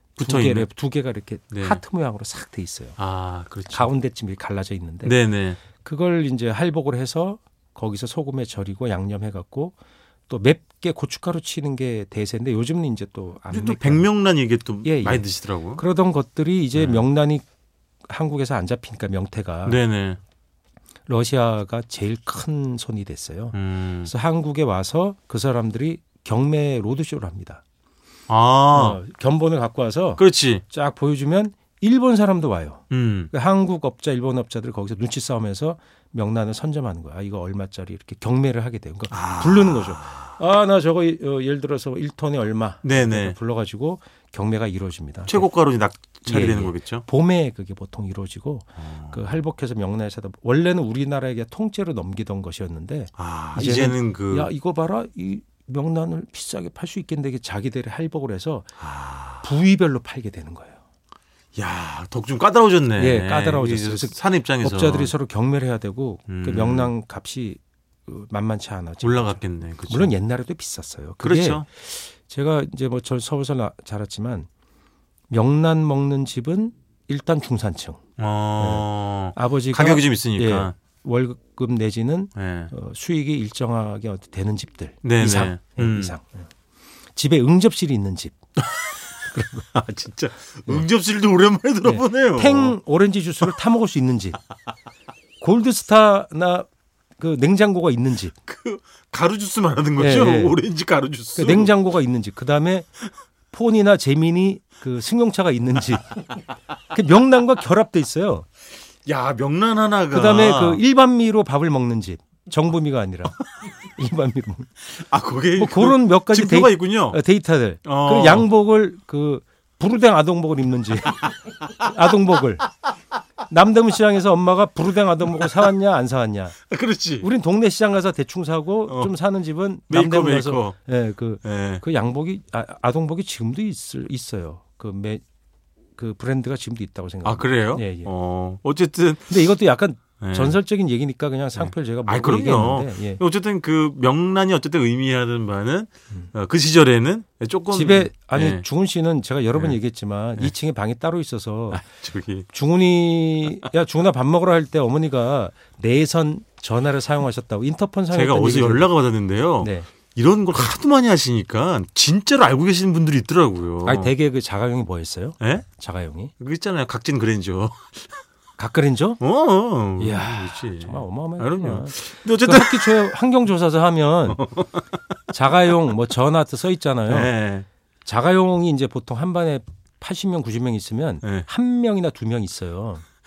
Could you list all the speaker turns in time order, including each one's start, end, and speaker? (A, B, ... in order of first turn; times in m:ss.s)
0:00.2-0:00.7 A
0:00.2-0:03.0 B
0:01.5-0:01.8 A
0:03.0-0:03.9 A
0:03.7-0:05.2 B
0:05.0-0:05.6 A
0:05.7-0:09.8 B
0:10.3-0:14.1 B
0:13.5-0:15.8 A
0:14.8-0:17.4 B
0:16.7-0:17.1 A
0:18.0-0:19.8 B
0:19.6-0:20.2 A
0:21.1-0:27.6 B
0:23.5-0:24.1 A
0:28.3-0:29.0 A
0:28.7-0:45.5 B
0:30.2-0:30.6 A
0:32.9-0:33.3 A
0:39.1-0:40.3 A
0:42.8-0:43.4 A
0:45.3-0:47.0 A
0:46.2-0:58.7 B
0:48.8-0:49.2 A
0:53.2-0:54.5 A
0:58.8-0:59.5 A
0:59.4-1:00.8 B
1:01.6-1:05.1 A
1:03.0-1:14.5 B
1:06.3-1:06.9 A
1:09.0-1:10.1 A
1:11.2-1:11.7 A
1:15.3-1:18.0 B
1:18.2-1:20.8 A
1:18.6-1:26.5 B
1:22.4-1:22.7 A
1:25.0-1:26.2 A
1:27.2-1:28.4 B
1:29.2-1:29.7 B
1:29.7-1:32.8 A
1:31.8-1:34.4 B
1:35.4-1:38.4 B
1:38.5-1:41.7 A
1:40.0-1:40.6 B
1:41.4-1:42.9 B
1:43.5-1:46.2 B
1:46.9-1:48.5 B
1:49.1-1:50.8 A
1:50.1-1:54.8 B
1:54.8-1:57.2 A
1:55.6-2:02.7 B
1:57.8-1:58.5 A
2:03.5-2:06.6 B
2:06.7-2:07.3 A
2:07.2-2:15.2 B
2:08.9-2:09.1 A
2:09.9-2:10.8 A
2:11.4-2:11.8 A
2:16.0-2:18.1 B
2:17.2-2:19.6 A
2:19.3-2:23.2 B
2:20.2-2:20.6 A
2:21.6-2:28.6 A
2:27.7-2:31.8 B
2:31.7-2:32.5 A
2:32.5-2:38.9 B
2:38.1-2:44.1 A
2:39.6-2:39.9 B
2:43.8-2:46.3 B
2:46.4-2:48.1 A
2:48.6-2:49.2 B
2:49.2-2:53.1 A
2:50.0-2:54.4 B
2:54.3-2:54.9 A
2:55.3-2:57.3 B
2:57.1-2:57.7 A
2:58.0-3:03.0 B
3:01.2-3:01.5 A